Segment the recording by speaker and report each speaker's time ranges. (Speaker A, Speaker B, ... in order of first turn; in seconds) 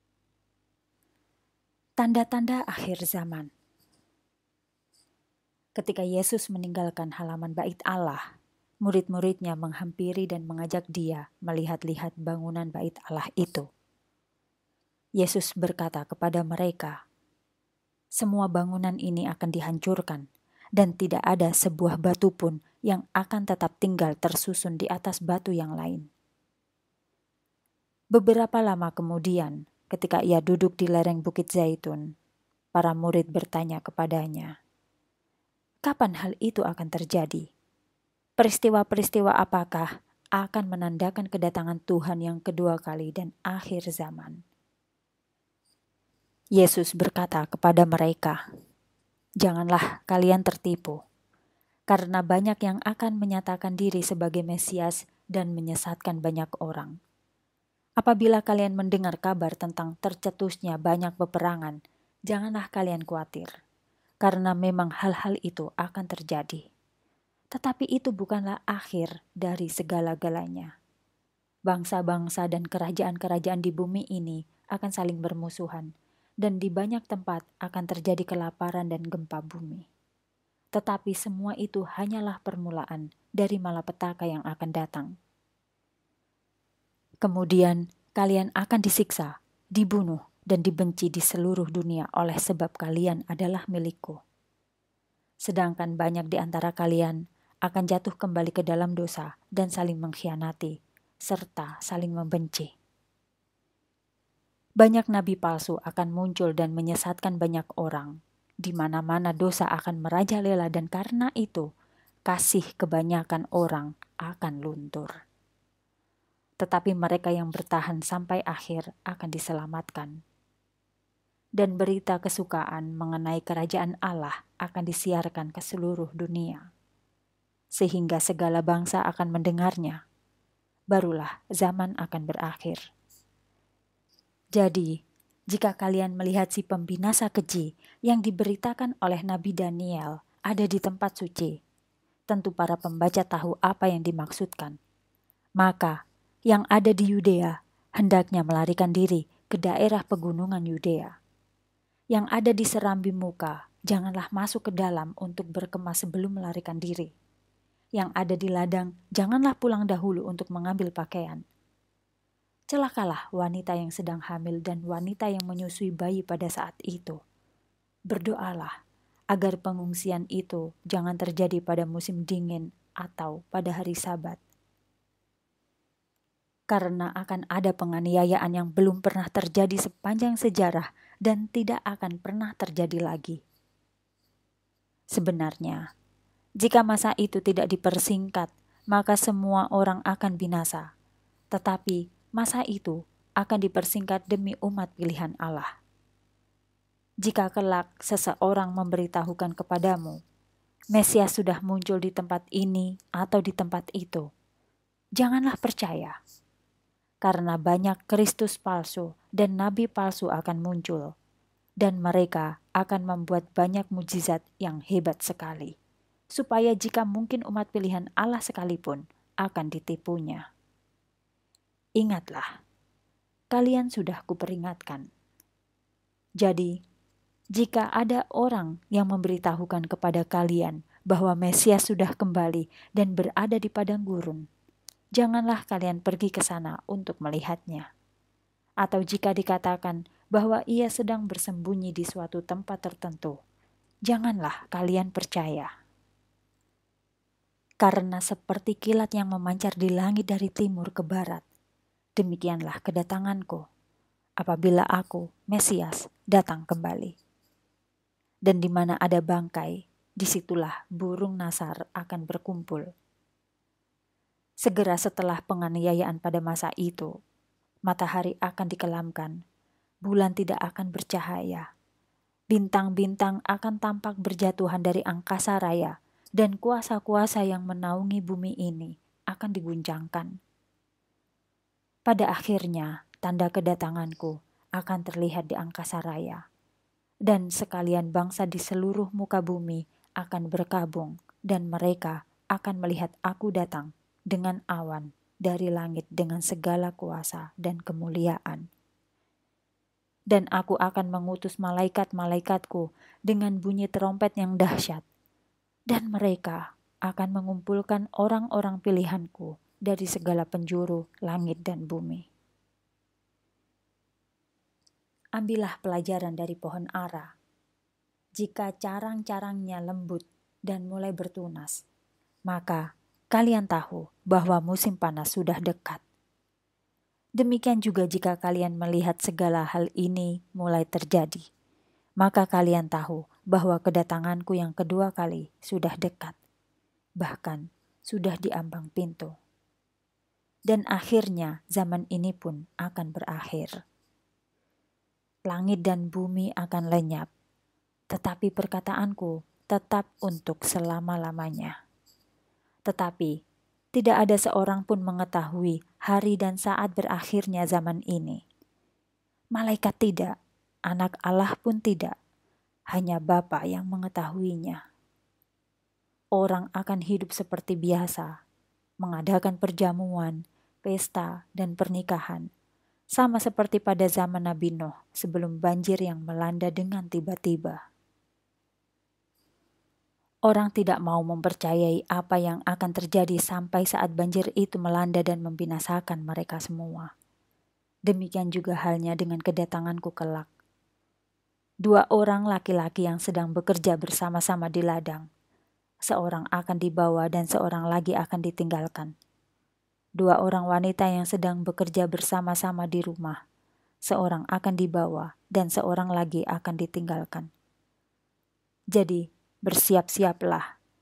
Speaker A: 2.0-3.5, 5.8-8.2, 8.8-13.7, 15.2-17.0, 18.2-20.2, 20.8-26.1, 28.1-32.1, 32.8-34.5, 35.9-37.5, 38.4-39.9, 40.4-44.4, 46.6-48.4, 49.4-51.0, 51.9-57.0, 58.0-61.8, 62.3-63.5, 64.2-66.6, 67.5-70.7, 71.7-75.9, 76.4-79.9, 80.8-85.1, 87.2-94.2, 95.5-100.7, 101.3-102.7, 104.8-111.7, 112.3-115.1, 116.6-120.2, 121.6-126.7, 127.8-130.0, 130.9-132.8, 134.6-134.9, 135.5-141.5, 142.3-144.8, 145.6-146.0, 146.5-151.1, 152.1-157.1, 158.0-161.4, 162.7-167.2, 168.1-168.7, 169.3-174.4, 176.7-183.4, 185.2-185.8, 186.6-190.9, 191.5-195.7, 197.2-200.2, 200.9-204.3, 205.2-206.2, 207.2-211.1, 211.8-215.7, 216.4-220.4, 222.0-222.5, 223.5-225.1, 226.4-226.7, 227.6-234.4, 235.2-237.9, 238.8-243.4, 244.1-245.7, 247.8-251.4, 252.2-253.6, 254.4-257.1, 258.5-262.9, 264.6-267.1, 267.9-269.4, 270.1-271.7, 272.5-280.3, 282.1-286.4, 287.3-298.6, 300.3-305.0, 305.9-312.3, 315.4-317.3, 318.4-321.8, 322.5-322.8, 323.3-326.0, 327.4-331.4, 332.2-336.4, 337.2-339.3, 340.7-343.7, 345.5-347.3, 348.1-351.7, 352.9-353.3, 353.9-358.4, 359.6-360.3, 360.9-362.1, 362.9-364.8, 366.4-368.3, 369.0-372.5, 373.2-377.8, 380.5-387.1, 388.1-390.5, 391.9-395.3, 396.1-399.1, 400.2-403.4, 404.1-407.5, 408.9-410.7